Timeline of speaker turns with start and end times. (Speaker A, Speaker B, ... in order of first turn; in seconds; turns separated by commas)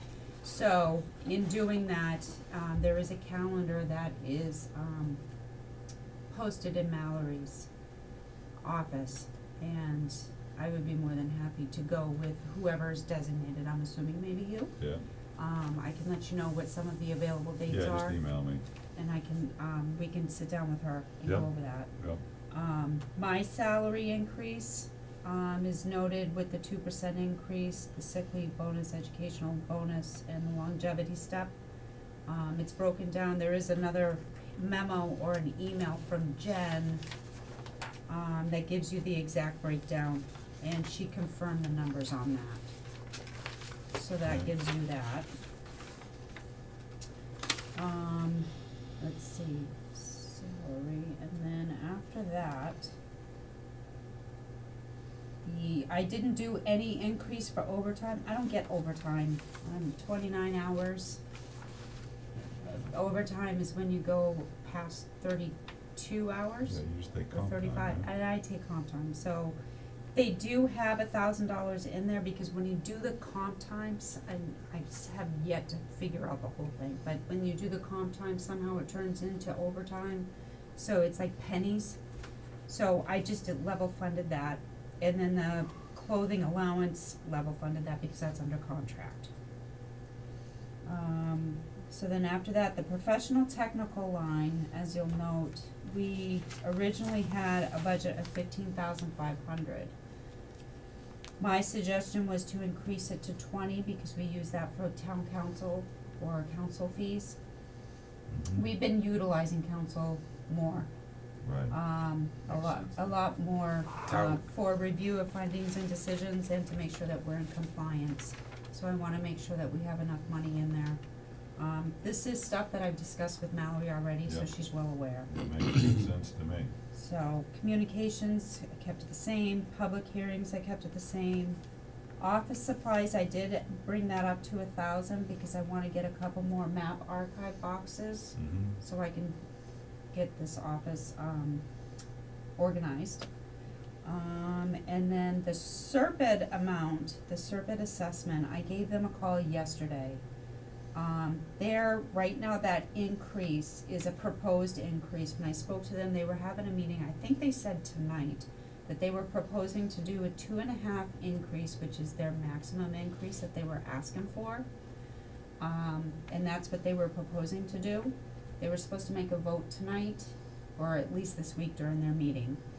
Speaker A: 0.4-5.2, Speaker A: 6.3-7.7, Speaker A: 8.6-14.8, Speaker A: 15.4-18.2, Speaker B: 17.7-18.6, Speaker A: 19.0-21.9, Speaker B: 21.3-22.2, Speaker A: 22.5-31.5, Speaker A: 32.3-37.0, Speaker A: 38.1-42.7, Speaker A: 43.9-45.3, Speaker B: 44.2-44.5, Speaker A: 47.8-52.9, Speaker A: 55.4-61.2, Speaker A: 62.9-66.8, Speaker B: 66.7-68.1, Speaker A: 67.3-69.6, Speaker A: 70.1-82.0, Speaker A: 82.7-89.3, Speaker A: 90.9-99.9, Speaker A: 101.4-107.4, Speaker B: 108.3-108.7, Speaker A: 108.5-110.9, Speaker B: 111.4-111.7, Speaker A: 111.7-121.0, Speaker A: 121.6-125.3, Speaker B: 125.2-126.7, Speaker A: 126.9-131.6, Speaker A: 132.2-139.4, Speaker B: 138.4-138.8, Speaker A: 140.1-141.6, Speaker A: 142.6-143.3, Speaker A: 144.0-150.2, Speaker A: 150.9-164.7, Speaker A: 165.6-172.6